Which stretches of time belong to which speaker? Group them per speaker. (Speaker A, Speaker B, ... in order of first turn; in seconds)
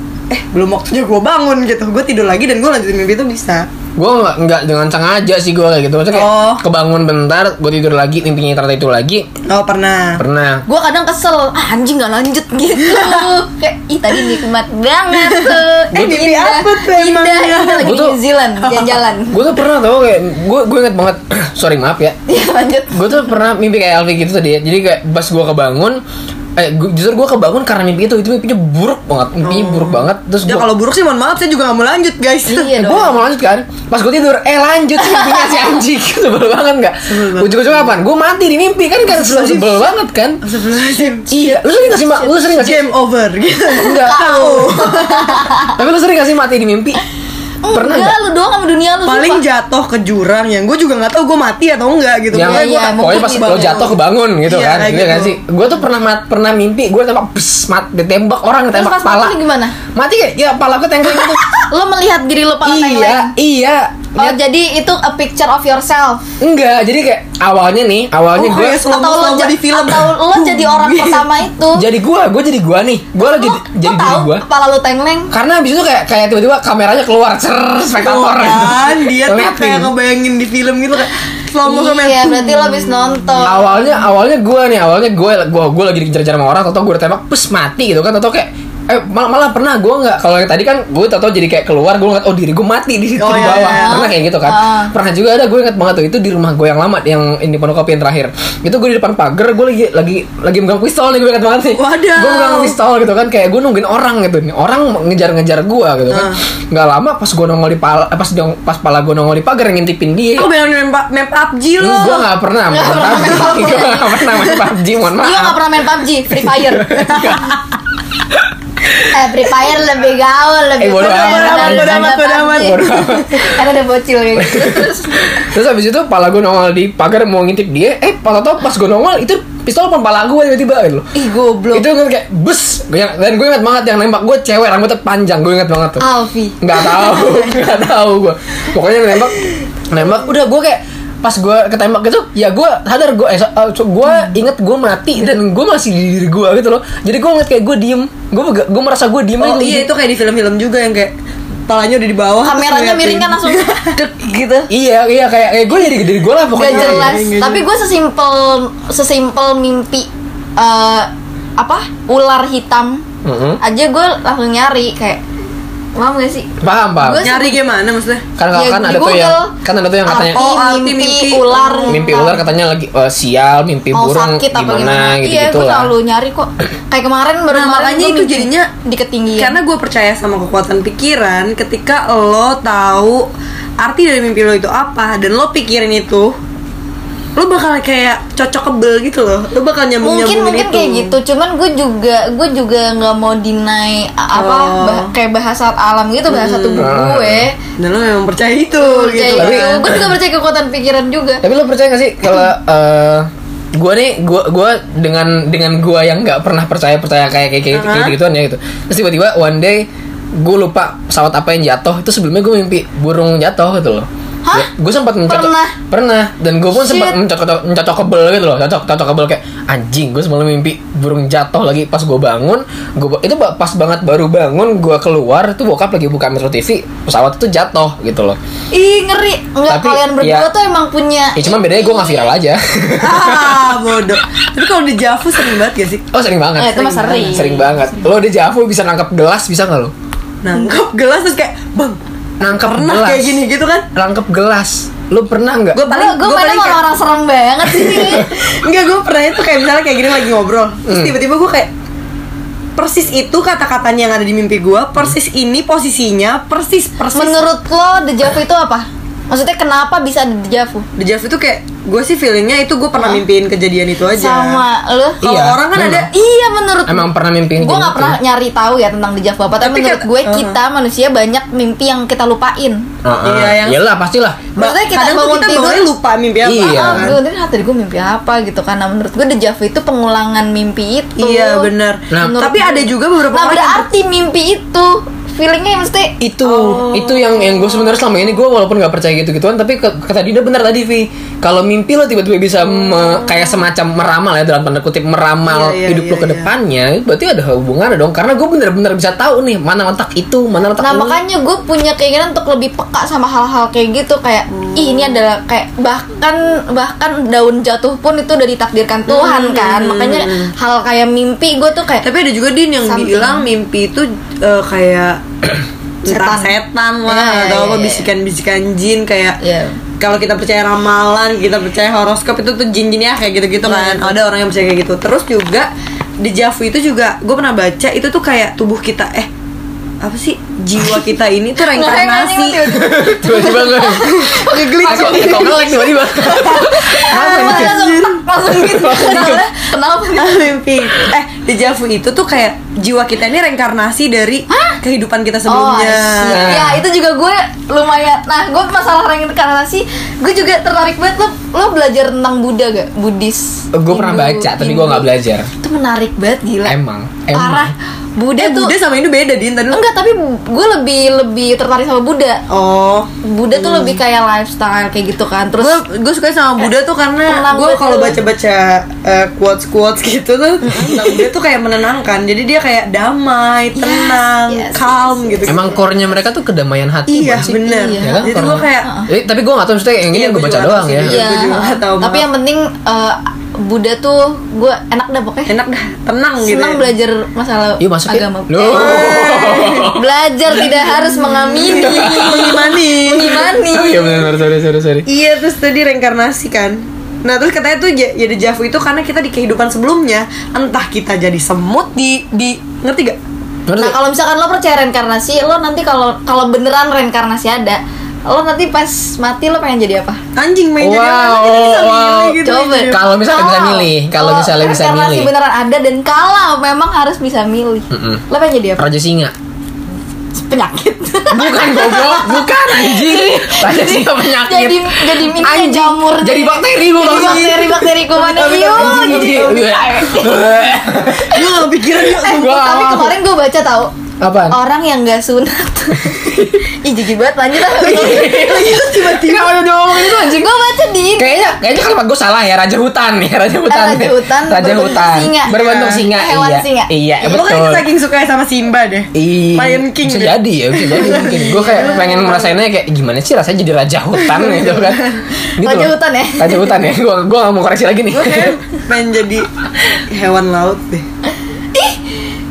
Speaker A: 0.3-3.6, 6.1-6.6, 9.5-10.2, 12.8-13.3, 15.2-18.0, 18.6-19.0, 29.4-32.7, 37.0-37.9, 39.1-39.9, 40.4-41.3, 42.5-45.5, 49.0-55.4, 68.3-71.3, 78.0-83.4, 93.2-94.0, 101.7-102.8, 106.1-106.4, 110.4-112.3, 113.2-113.8, 120.9-123.3, 149.4-151.1, 151.7-153.9, 156.6-157.6, 167.2-168.2, 170.3-172.3, 177.5-178.7, 179.3-183.2, 183.8-186.3, 187.3-191.1, 194.3-195.1, 196.3-196.9, 197.8-200.0, 207.7-208.1, 233.0-236.0, 240.4-243.9, 245.7-246.8, 247.7-251.7, 252.8-257.4, 261.0-264.6, 265.2-266.1, 269.6-270.6, 273.2-273.8, 274.6-277.2, 281.2-283.9, 286.4-288.1, 295.4-296.5, 304.6-305.2, 309.1-310.5, 312.0-315.2, 316.0-319.4, 320.0-325.7, 326.2-329.3, 330.0-332.7, 334.0-335.6, 337.1-339.4, 340.1-346.5, 358.4-359.8, 362.5-364.0, 365.6-375.7, 377.1-378.9, 380.1-382.2, 385.5-386.9, 388.7-389.9, 390.5-393.4, 395.1-403.2, 410.3-413.0, 427.0-429.7, 431.1-433.0, 437.8-439.8, 445.5-446.0, 447.2-452.5, 454.3-455.2, 458.1-461.1
Speaker B: 4.0-9.3, 10.2-10.6, 17.8-18.2, 19.3-22.1, 22.9-26.0, 26.6-30.7, 32.7-40.4, 41.3-42.9, 43.8-44.3, 45.7-47.0, 47.7-48.1, 52.3-59.4, 59.9-61.4, 62.6-64.4, 66.4-68.8, 71.7-74.4, 75.3-79.9, 83.4-110.5, 111.8-115.6, 116.3-117.6, 118.2-119.1, 120.8-123.4, 124.4-131.1, 131.7-136.0, 136.6-139.3, 139.9-149.9, 154.7-157.2, 163.2-163.6, 166.6-167.2, 168.4-170.4, 171.9-175.9, 196.8-197.5, 199.3-200.0, 201.4-209.9, 210.4-228.4, 229.7-230.5, 231.3-233.8, 236.1-239.9, 242.4-243.4, 243.9-245.8, 250.9-251.2, 265.2-266.1, 266.9-268.2, 273.0-274.5, 276.4-277.1, 282.1-282.4, 286.2-301.2, 332.7-337.8, 338.5-339.4, 346.3-346.8, 353.7-355.5, 356.6-357.7, 375.5-381.2, 387.8-390.0, 391.7-392.7, 393.3-395.1, 403.7-404.0, 410.8-412.4, 412.9-415.3, 417.9-418.2, 418.8-419.3, 421.3-427.6, 428.7-431.4, 432.4-433.1, 434.2-434.5, 435.9-436.6, 437.8-440.6, 441.2-447.8, 449.1-458.5
Speaker C: 10.7-19.4, 22.3-23.3, 32.5-33.2, 35.0-35.4, 41.3-42.5, 43.8-45.8, 47.6-49.4, 52.4-53.8, 58.7-59.8, 61.1-63.3, 64.2-66.2, 68.9-71.8, 73.2-75.3, 81.6-84.0, 93.3-94.9, 112.7-114.4, 115.2-117.5, 119.1-125.1, 131.1-131.9, 136.0-137.4, 152.4-154.7, 156.5-163.0, 163.6-165.2, 165.9-167.6, 168.5-169.5, 170.0-172.4, 173.9-179.6, 190.0-197.6, 198.8-201.4, 215.2-215.7, 216.8-217.2, 228.7-232.3, 236.6-238.1, 245.8-248.4, 257.1-260.9, 264.1-265.2, 265.9-272.9, 274.6-275.9, 276.6-281.7, 282.2-286.1, 300.8-312.1, 312.8-313.5, 316.0-318.1, 319.4-319.8, 323.6-324.1, 331.6-340.5, 344.5-344.8, 345.5-355.1, 355.6-356.8, 357.3-358.7, 359.7-362.4, 363.2-365.8, 367.3-368.2, 370.6-371.3, 373.8-375.8, 377.6-378.3, 378.8-379.1, 381.0-385.5, 386.4-389.1, 389.9-394.3, 403.8-410.2, 412.4-418.8, 420.3-430.7, 431.9-433.9, 434.5-438.5, 440.1-441.5, 443.7-446.9, 451.6-452.2, 455.3-456.7, 461.7-462.1